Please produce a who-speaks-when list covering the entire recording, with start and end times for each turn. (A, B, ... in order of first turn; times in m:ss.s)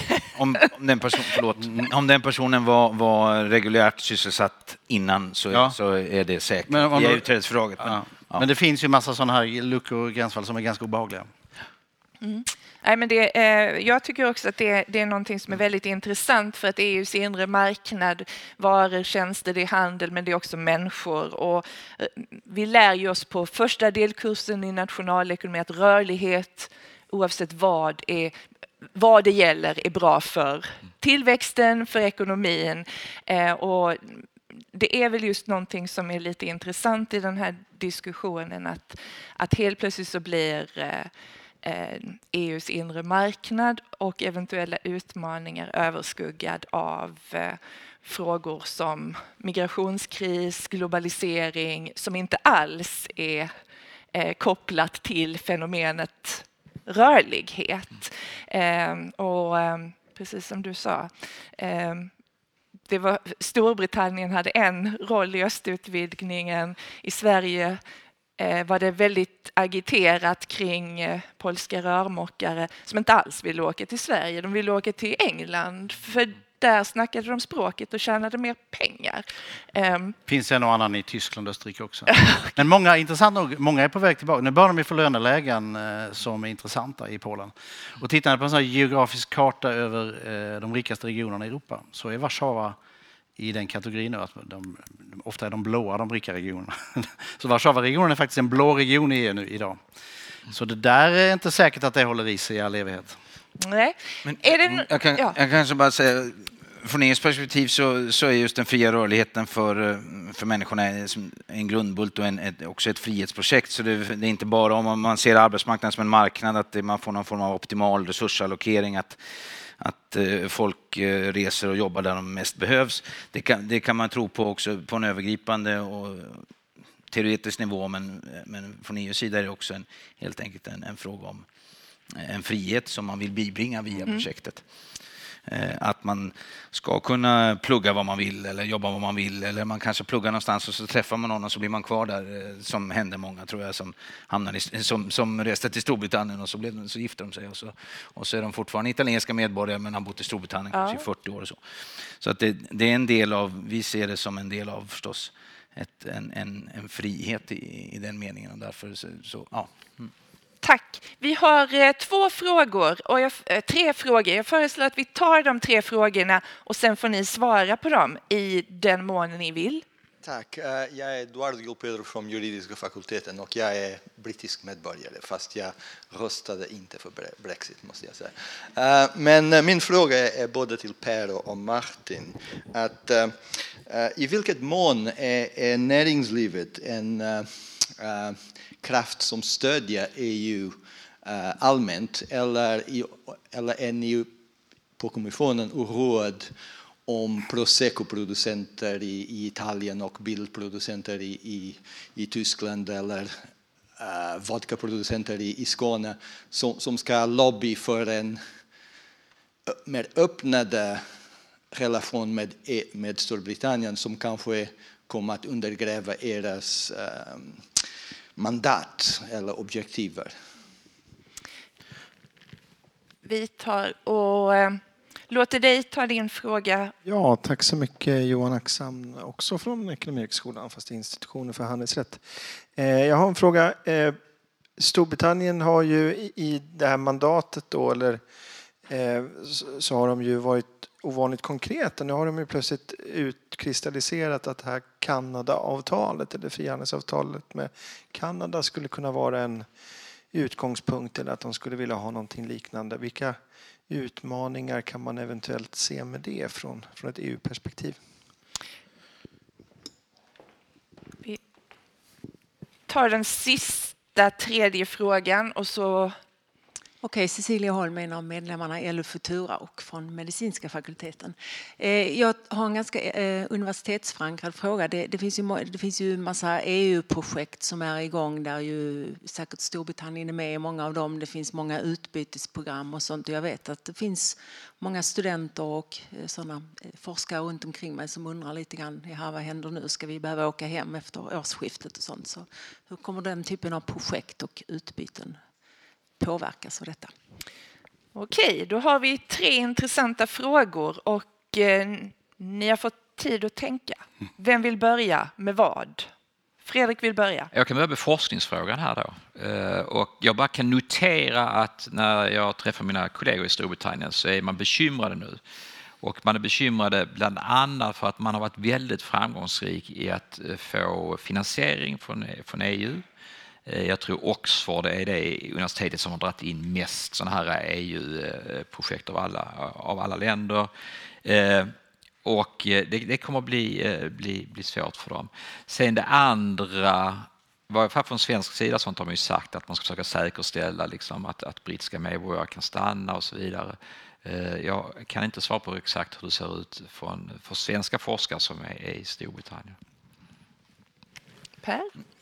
0:00.2-0:08.5 A
0:05.5-0:05.8 B
0:06.7-0:07.3 B
0:07.8-0:11.3 B
0:12.2-0:28.4 C
0:28.9-0:41.1 C
0:41.6-0:53.5 C
0:54.1-1:02.1 C
1:02.9-1:07.8 C
1:08.4-1:20.2 C
1:20.3-1:32.8 B
1:22.1-1:22.5 C
1:33.4-1:39.8 B
1:40.5-1:43.2 B
1:43.6-1:45.4 C
1:44.2-1:59.2 A
1:59.8-2:06.5 A
2:07.1-2:11.5 A
2:12.1-2:14.6 A
2:15.5-2:40.1 A
2:30.7-2:31.1 C
2:40.6-2:49.8 C
2:50.2-3:14.3 D
3:15.0-3:28.4 D
3:29.9-3:31.2 D
3:31.7-3:37.7 D
3:38.4-3:40.3 D
3:43.2-3:46.9 C
3:47.0-3:54.2 E
3:54.8-3:58.2 E
3:58.8-4:09.8 E
4:10.3-4:18.0 E
4:22.9-4:26.2 C
4:27.0-4:55.4 F
4:56.2-4:57.1 F
4:58.2-5:06.1 C
5:06.6-5:07.5 C
5:07.5-5:15.4 G
5:16.0-5:23.0 G
5:23.7-5:30.7 G
5:31.2-5:49.8 G
5:51.6-5:51.9 C